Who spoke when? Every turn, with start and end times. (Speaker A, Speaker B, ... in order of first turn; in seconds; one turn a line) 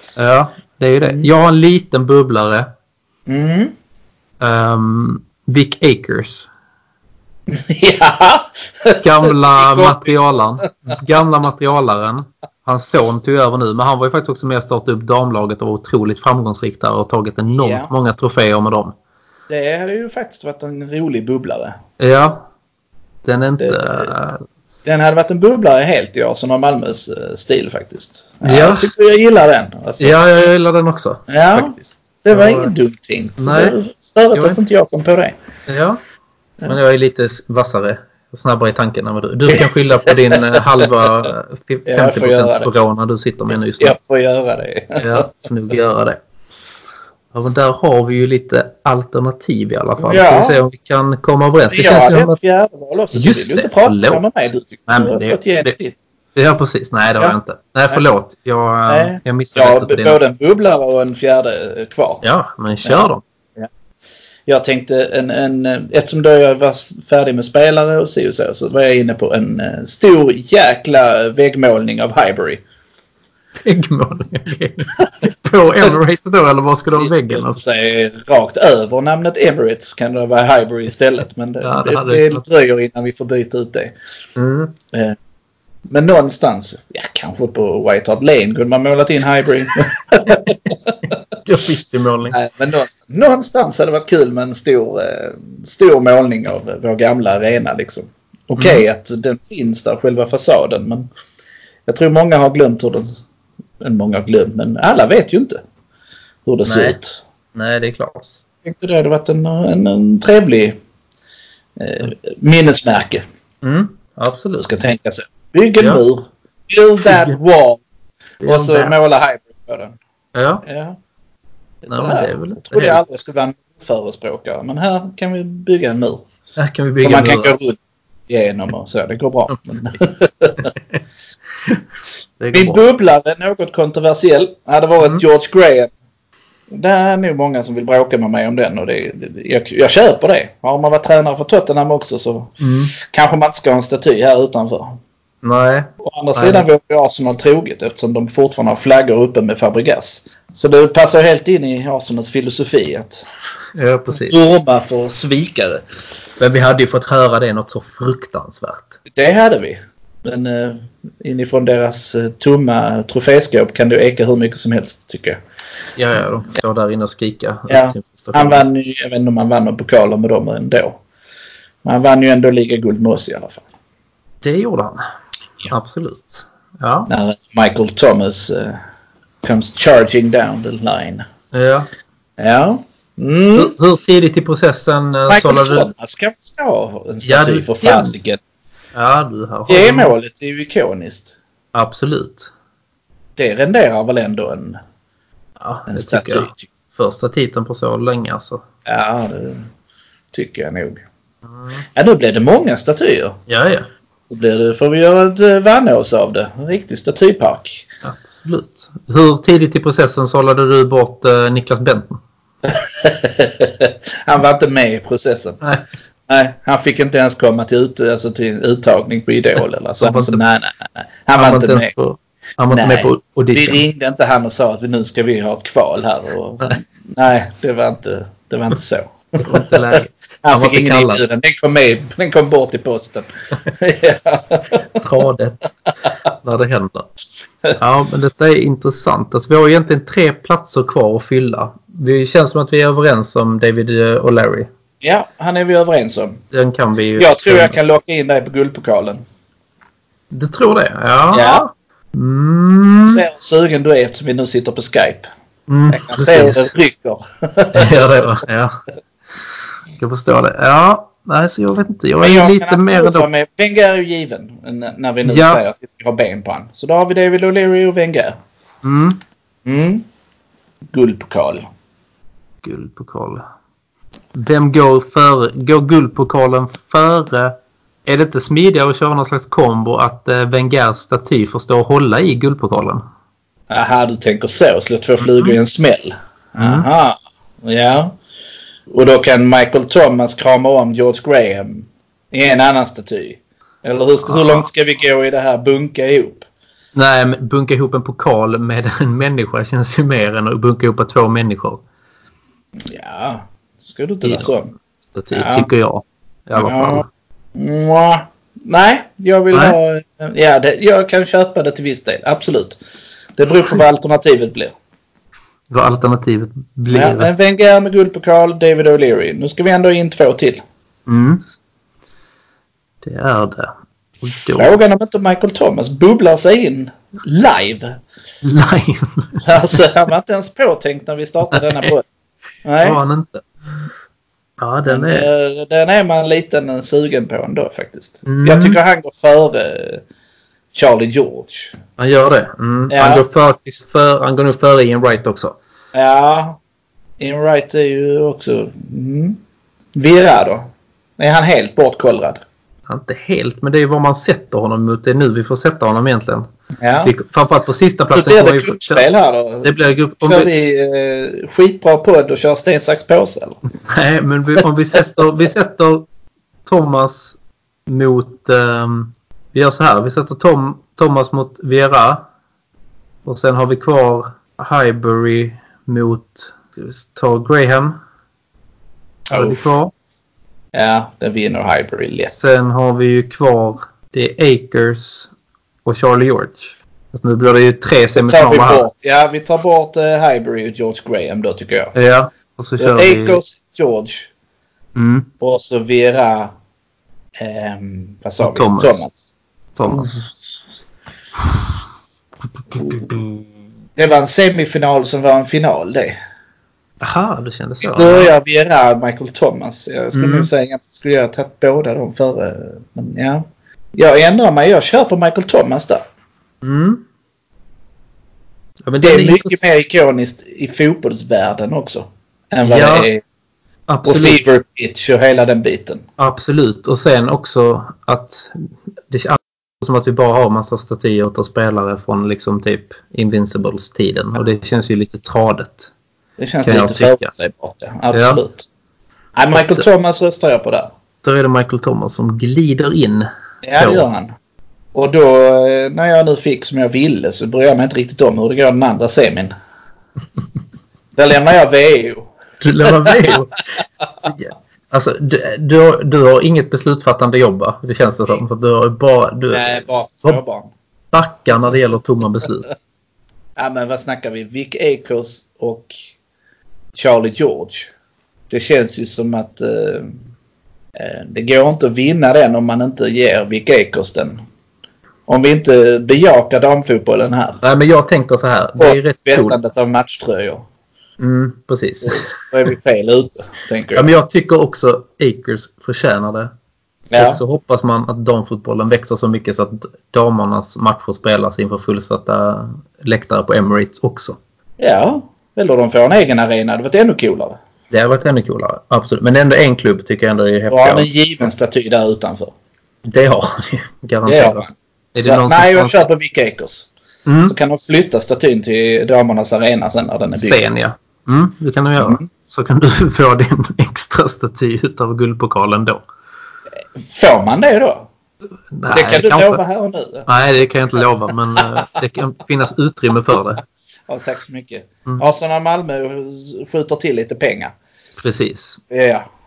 Speaker A: 0.2-2.7
Speaker B: 3.3-3.7
Speaker A: 4.4-6.5
Speaker B: 7.5-10.9
Speaker A: 9.0-18.9
Speaker B: 17.5-17.9
Speaker B: 19.5-21.8
Speaker A: 22.0-22.4
Speaker A: 23.2-24.4
Speaker B: 23.6-24.1
Speaker B: 24.8-30.2
Speaker A: 28.4-28.9
Speaker A: 30.0-32.7
Speaker B: 31.3-35.3
Speaker A: 33.4-33.8
Speaker A: 35.7-36.0
Speaker A: 36.6-44.0
Speaker B: 39.5-40.9
Speaker B: 41.9-42.7
Speaker B: 43.8-45.3
Speaker A: 45.0-46.2
Speaker A: 47.3-52.4
Speaker B: 50.0-50.6
Speaker B: 51.7-56.0
Speaker A: 53.1-55.7
Speaker A: 56.3-60.2
Speaker B: 58.9-62.2
Speaker A: 62.2-63.2
Speaker B: 62.8-63.7
Speaker B: 64.5-72.6
Speaker A: 73.6-77.6
Speaker B: 77.0-83.9
Speaker A: 81.6-82.4
Speaker A: 84.3-84.7
Speaker B: 84.9-85.2
Speaker B: 85.9-91.1
Speaker A: 91.4-92.3
Speaker B: 92.3-101.1
Speaker A: 98.6-98.8
Speaker B: 101.8-103.2
Speaker B: 103.8-105.6
Speaker B: 106.5-107.2
Speaker A: 106.6-107.0
Speaker A: 107.5-108.5
Speaker B: 108.6-110.8
Speaker B: 111.8-113.2
Speaker A: 113.6-114.7
Speaker B: 114.6-117.8
Speaker A: 117.0-117.3
Speaker A: 118.4-118.9
Speaker B: 118.4-120.0
Speaker A: 120.3-120.6
Speaker B: 120.6-121.0
Speaker B: 121.8-126.2
Speaker A: 121.9-123.0
Speaker A: 126.6-127.5
Speaker B: 127.0-130.7
Speaker A: 132.4-132.8
Speaker B: 132.5-135.9
Speaker B: 136.7-145.0
Speaker A: 142.6-142.9
Speaker A: 145.4-146.6
Speaker B: 146.0-153.2
Speaker A: 153.7-154.3
Speaker B: 154.1-155.8
Speaker A: 156.4-158.9
Speaker B: 159.1-165.4
Speaker A: 165.9-168.6
Speaker B: 167.7-171.0
Speaker B: 171.8-173.6
Speaker A: 174.4-175.0
Speaker A: 175.7-177.1
Speaker B: 177.1-178.8
Speaker B: 179.4-181.2
Speaker A: 181.5-181.9
Speaker B: 182.4-183.8
Speaker A: 183.6-185.9
Speaker B: 185.3-188.4
Speaker A: 187.2-188.1
Speaker A: 188.9-190.1
Speaker B: 189.7-191.3
Speaker A: 191.7-192.5
Speaker B: 193.4-194.8
Speaker A: 195.6-198.6
Speaker B: 195.9-196.7
Speaker B: 198.8-199.7
Speaker B: 200.3-201.0
Speaker B: 201.9-203.4
Speaker A: 203.5-203.9
Speaker B: 204.3-207.9
Speaker A: 208.0-212.2
Speaker B: 212.7-215.6
Speaker B: 216.3-221.9
Speaker A: 220.0-220.4
Speaker A: 221.3-223.8
Speaker B: 222.7-229.9
Speaker A: 229.4-231.2
Speaker B: 230.4-235.0
Speaker A: 234.9-235.7
Speaker A: 236.4-237.1
Speaker A: 237.7-244.7
Speaker B: 245.0-246.4
Speaker A: 246.5-247.8
Speaker B: 247.2-249.2
Speaker A: 250.3-253.2
Speaker B: 251.3-251.6
Speaker B: 253.0-255.3
Speaker A: 255.7-256.7
Speaker B: 255.9-258.0
Speaker A: 257.7-258.7
Speaker A: 260.0-263.3
Speaker B: 262.2-268.4
Speaker A: 265.2-265.6
Speaker A: 268.8-269.2
Speaker B: 269.6-270.1
Speaker B: 270.9-271.6
Speaker A: 272.6-273.4
Speaker A: 274.3-283.0
Speaker B: 283.7-288.1
Speaker A: 285.2-285.6
Speaker A: 286.6-286.9
Speaker B: 288.9-296.4
Speaker A: 294.2-294.7
Speaker A: 296.9-301.8
Speaker B: 302.8-304.7
Speaker A: 304.2-304.5
Speaker A: 305.1-307.1
Speaker B: 305.3-305.7
Speaker B: 306.5-307.0
Speaker B: 307.6-312.8
Speaker B: 313.4-314.7
Speaker A: 315.7-317.3
Speaker B: 316.9-320.6
Speaker A: 321.1-321.4
Speaker A: 323.0-324.8
Speaker B: 324.3-327.9
Speaker A: 328.4-329.8
Speaker B: 329.4-332.0
Speaker A: 331.5-331.9
Speaker B: 332.6-333.0
Speaker A: 332.8-333.9
Speaker A: 334.6-335.3
Speaker B: 334.9-340.0
Speaker A: 338.2-338.8
Speaker B: 340.7-341.8
Speaker A: 342.0-345.6
Speaker B: 342.9-343.2
Speaker B: 345.9-346.6
Speaker B: 347.2-349.4
Speaker B: 349.9-352.4
Speaker A: 352.9-356.4
Speaker B: 356.8-357.1
Speaker A: 357.0-359.1
Speaker B: 358.1-363.6
Speaker A: 359.6-360.5
Speaker A: 363.9-366.1
Speaker A: 366.6-372.2
Speaker A: 373.2-378.0
Speaker B: 379.3-379.6
Speaker A: 379.3-379.9
Speaker B: 380.7-382.4
Speaker A: 382.3-385.3
Speaker A: 385.8-388.8
Speaker B: 388.2-391.9
Speaker A: 391.9-393.4
Speaker B: 392.8-394.3
Speaker A: 394.9-395.3
Speaker B: 395.4-396.5
Speaker B: 397.4-399.2
Speaker A: 398.4-399.0
Speaker A: 399.8-400.3
Speaker B: 399.9-400.2
Speaker A: 402.8-403.2
Speaker B: 404.0-406.1
Speaker A: 407.0-408.3
Speaker B: 407.8-416.0
Speaker A: 410.1-410.5
Speaker A: 416.6-417.0
Speaker A: 418.9-419.6
Speaker B: 419.0-423.2
Speaker A: 422.6-423.1
Speaker A: 423.9-424.4
Speaker B: 424.1-426.1
Speaker A: 426.2-435.9
Speaker B: 436.4-438.7
Speaker A: 436.6-437.3
Speaker A: 438.1-438.4
Speaker B: 439.4-440.9
Speaker A: 441.2-444.1
Speaker B: 443.6-444.3
Speaker B: 444.9-449.5
Speaker B: 451.1-452.3
Speaker A: 452.6-453.6
Speaker B: 452.8-453.4
Speaker A: 454.2-460.4
Speaker B: 459.5-460.7
Speaker A: 461.1-462.7
Speaker B: 463.6-465.9
Speaker B: 466.9-467.9
Speaker B: 468.5-470.1
Speaker B: 470.9-474.4
Speaker B: 475.3-477.6
Speaker A: 477.6-479.6
Speaker B: 478.8-480.6
Speaker A: 481.2-482.3
Speaker B: 482.0-484.1
Speaker A: 483.9-486.5
Speaker B: 487.1-487.4
Speaker A: 487.1-494.4
Speaker B: 494.8-497.6
Speaker A: 497.9-501.1
Speaker B: 500.7-502.5
Speaker A: 503.0-506.0
Speaker B: 504.2-506.9
Speaker A: 507.2-507.5
Speaker B: 507.4-510.6
Speaker A: 510.4-516.0
Speaker B: 512.0-512.2
Speaker B: 517.0-518.1
Speaker A: 518.7-519.6
Speaker B: 518.9-520.3
Speaker A: 520.3-523.6
Speaker B: 524.1-527.7
Speaker A: 528.2-528.8
Speaker B: 528.9-529.2